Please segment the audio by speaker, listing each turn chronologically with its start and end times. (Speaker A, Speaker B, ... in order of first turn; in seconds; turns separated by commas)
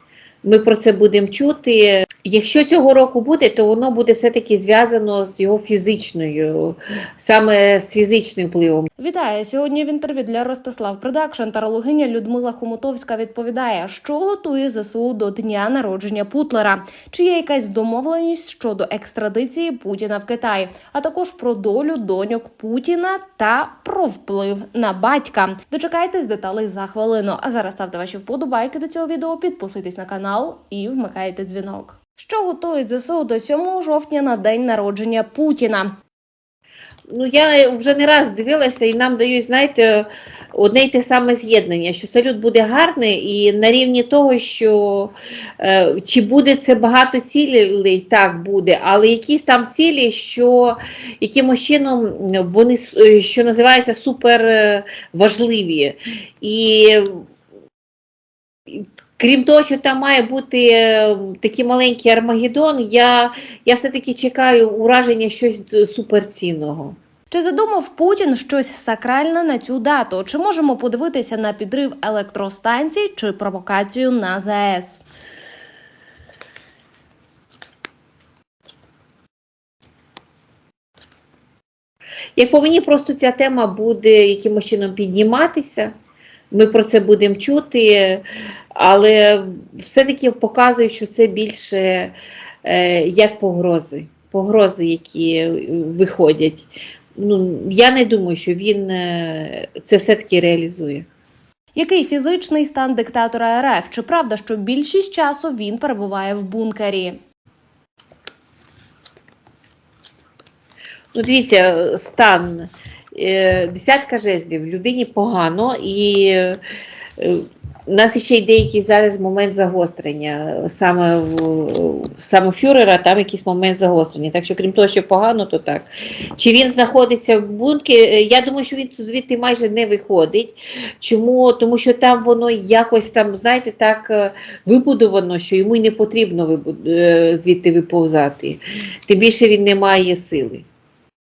Speaker A: 0.4-8.9, Speaker B: 9.0-35.9, Speaker A: 37.1-57.2, Speaker A: 58.7-67.0, Speaker B: 67.3-75.0, Speaker A: 82.4-85.9, Speaker A: 86.5-88.2, Speaker A: 88.7-101.1, Speaker B: 101.7-107.2, Speaker A: 111.1-116.6, Speaker A: 117.2-140.7